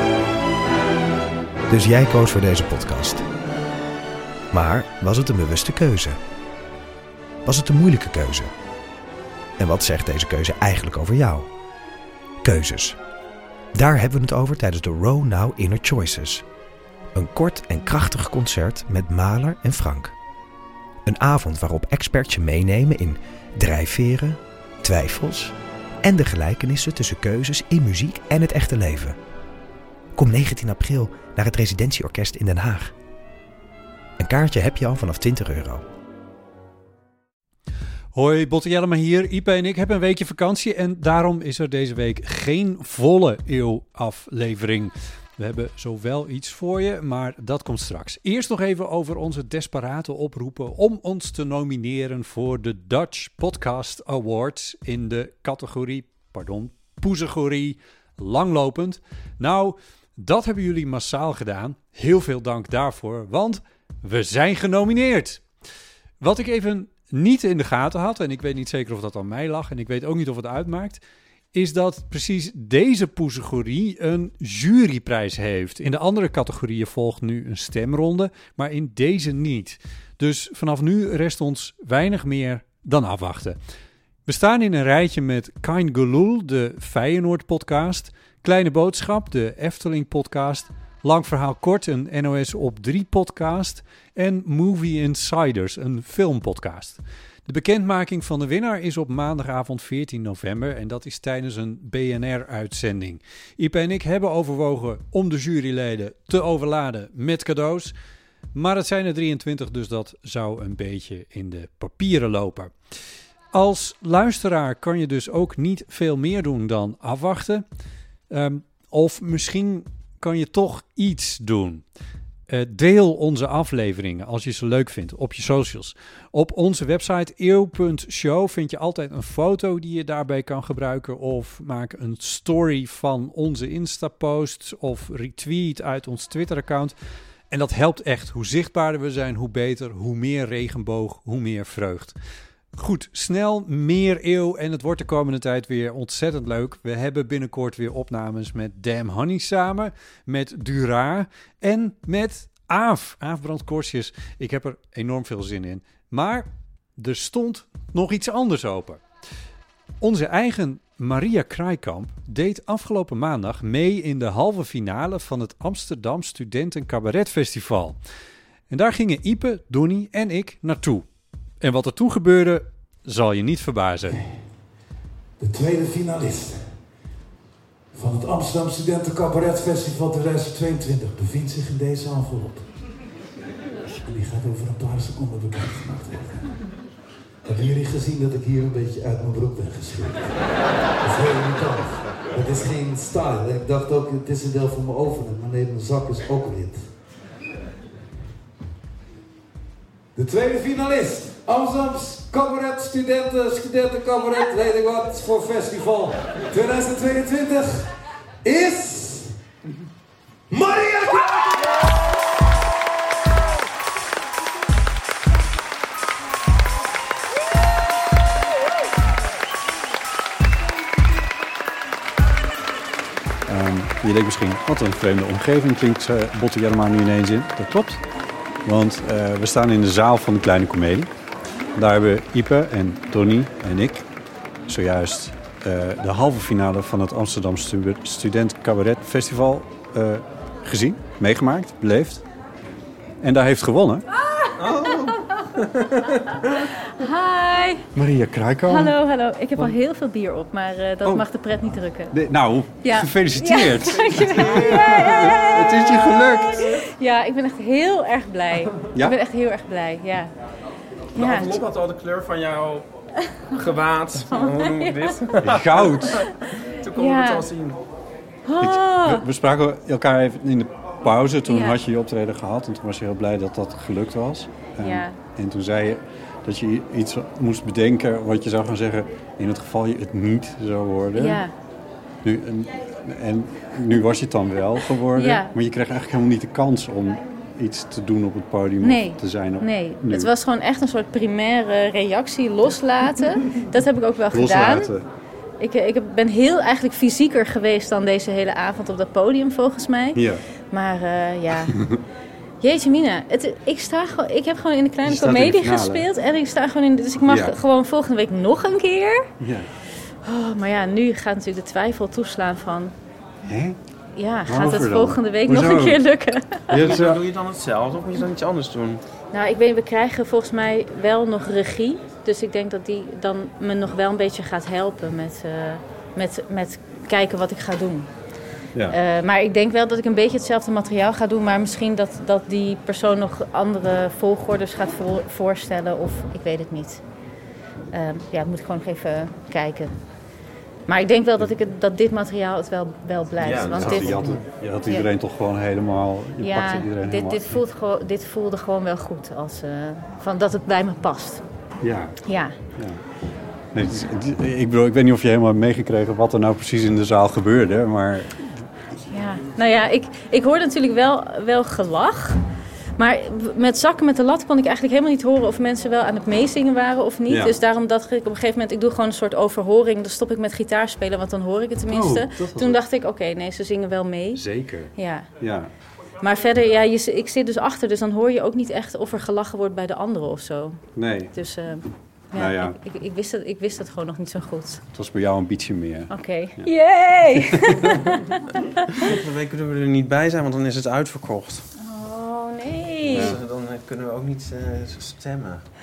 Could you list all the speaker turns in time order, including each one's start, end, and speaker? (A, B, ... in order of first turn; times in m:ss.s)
0:01.7-0:03.2 A
0:04.5-0:06.2 A
0:07.4-0:08.5 A
0:09.6-0:11.5 A
0:12.4-0:13.0 A
0:13.7-0:16.4 A
0:17.1-0:20.1 A
0:21.0-0:29.2 A
0:30.2-0:32.9 A
0:34.2-0:35.8 A
0:38.1-1:05.4 B
1:06.2-1:11.0 B
1:11.5-1:23.6 B
1:24.2-1:47.9 B
1:48.5-1:52.7 B
1:53.5-1:57.6 B
1:58.3-2:01.8 B
2:02.5-2:16.9 B
2:17.5-2:22.2 B
2:22.8-2:39.0 B
2:40.0-2:48.0 B
2:48.7-2:51.0 B
2:51.6-2:54.2 B
2:54.1-2:54.4 C
2:55.4-2:56.7 C
2:57.9-3:02.7 C
3:04.0-3:06.5 C
3:07.4-3:10.4 C
3:11.0-3:16.9 C
3:20.1-3:29.4 C
3:30.5-3:31.7 C
3:43.5-3:48.0 B
3:48.6-3:51.1 B
3:51.8-3:54.0 B
3:54.7-4:02.2 B
4:03.2-4:04.0 B
4:04.6-4:06.6 D
4:06.8-4:07.8 E
4:07.9-4:09.0 B
4:08.7-4:12.2 E
4:12.1-4:16.7 B
4:12.8-4:20.3 E
4:14.4-4:15.0 D
4:21.1-4:21.6 E
4:21.1-4:22.8 D
4:23.5-4:27.8 D
4:24.3-4:25.2 E
4:25.4-4:26.2 B
4:27.0-4:27.5 E
4:28.4-4:29.2 E
4:28.6-4:41.4 B
4:31.5-4:31.8 E
4:34.8-4:35.2 E
4:41.2-4:41.5 E
4:42.2-4:50.3 B
4:45.1-4:45.5 E
4:48.8-4:54.9 E
4:54.3-4:55.0 B
4:55.6-5:01.8 E
5:00.1-5:00.4 B
5:02.6-5:09.3 E
5:05.0-5:06.1 B
5:07.2-5:07.5 B
5:09.4-5:09.7 B
5:10.2-5:12.9 E
5:13.4-5:13.8 B
5:14.1-5:16.9 E
5:14.4-5:16.0 B
5:16.7-5:17.2 B
5:16.8-5:19.0 D
5:19.3-5:28.1 E
5:28.9-5:37.0 E
5:37.9-5:40.0 E
5:40.9-5:45.1 E
5:43.4-5:44.4 D
5:43.4-5:47.6 B
5:46.4-5:51.4 E
5:51.8-5:52.2 B
5:52.2-5:52.5 E
5:52.7-5:53.0 B
5:53.7-5:58.4 B
5:59.1-6:02.4 E
6:03.0-6:14.4 E
6:07.3-6:07.6 B
6:11.9-6:12.8 B
6:14.3-6:15.7 B
6:14.9-6:15.3 E
6:16.2-6:24.8 E
6:21.0-6:21.3 B
6:22.3-6:22.8 B
6:24.9-6:26.7 B
6:26.1-6:28.6 E
6:29.0-6:31.6 D
6:31.8-6:33.4 E
6:33.0-6:35.6 D
6:33.1-6:33.4 B